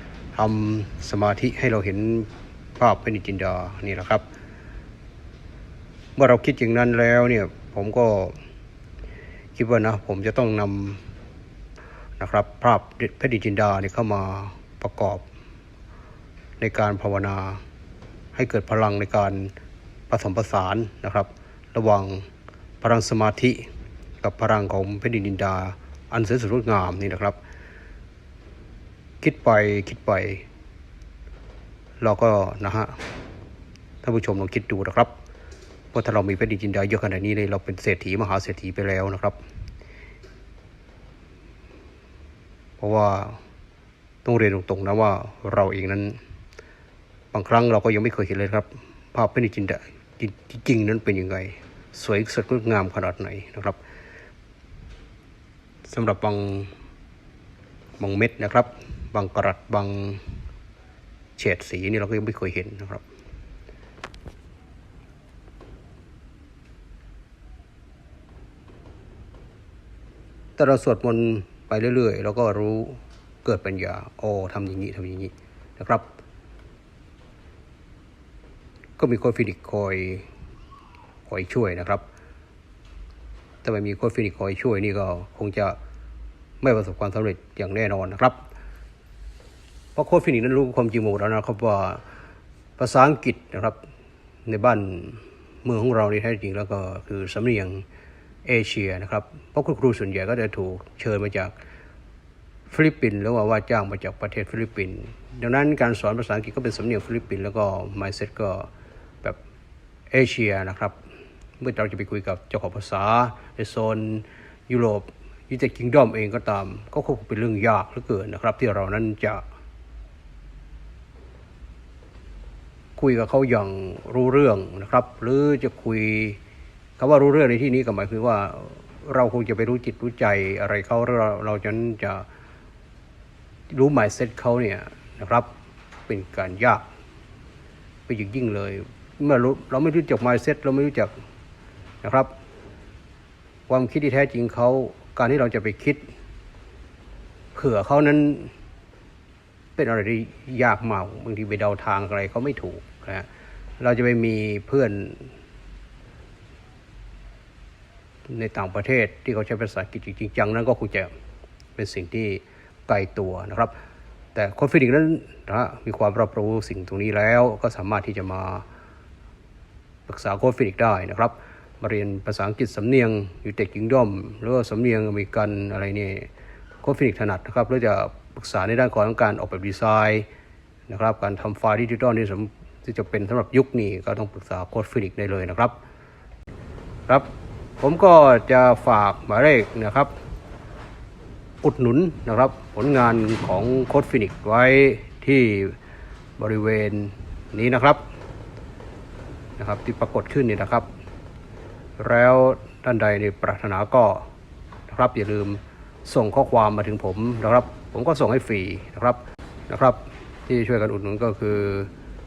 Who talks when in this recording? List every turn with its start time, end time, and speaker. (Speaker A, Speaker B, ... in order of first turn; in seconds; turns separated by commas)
Speaker A: 0.3-4.2, Speaker A: 6.2-8.3, Speaker A: 9.6-11.0, Speaker A: 12.2-15.2, Speaker A: 16.6-17.6, Speaker A: 18.3-19.5, Speaker A: 20.1-22.2, Speaker A: 22.8-23.6, Speaker A: 24.2-27.4, Speaker A: 29.2-30.4, Speaker A: 32.0-33.0, Speaker A: 34.0-35.1, Speaker A: 35.9-39.4, Speaker A: 42.8-43.4, Speaker A: 44.2-46.2, Speaker A: 47.3-53.8, Speaker A: 55.9-56.7, Speaker A: 58.0-60.2, Speaker A: 61.4-63.0, Speaker A: 70.6-76.0, Speaker A: 79.0-80.2, Speaker A: 81.3-82.0, Speaker A: 83.6-85.8, Speaker A: 86.6-88.4, Speaker A: 90.0-92.0, Speaker A: 92.8-93.8, Speaker A: 94.5-97.8, Speaker A: 98.5-101.5, Speaker A: 102.7-108.7, Speaker A: 110.1-111.0, Speaker A: 111.6-119.4, Speaker A: 123.0-126.4, Speaker A: 127.0-132.2, Speaker A: 133.7-135.5, Speaker A: 136.1-136.8, Speaker A: 138.1-141.1, Speaker A: 142.0-142.3, Speaker A: 143.7-146.0, Speaker A: 147.5-148.5, Speaker A: 149.8-153.3, Speaker A: 153.8-155.3, Speaker A: 158.3-161.1, Speaker A: 161.8-163.7, Speaker A: 164.3-168.6, Speaker A: 170.1-176.3, Speaker A: 176.8-180.2, Speaker A: 180.9-185.7, Speaker A: 187.8-190.1, Speaker A: 191.6-195.8, Speaker A: 196.4-198.0, Speaker A: 199.6-200.8, Speaker A: 202.0-204.2, Speaker A: 204.9-209.2, Speaker A: 209.7-211.9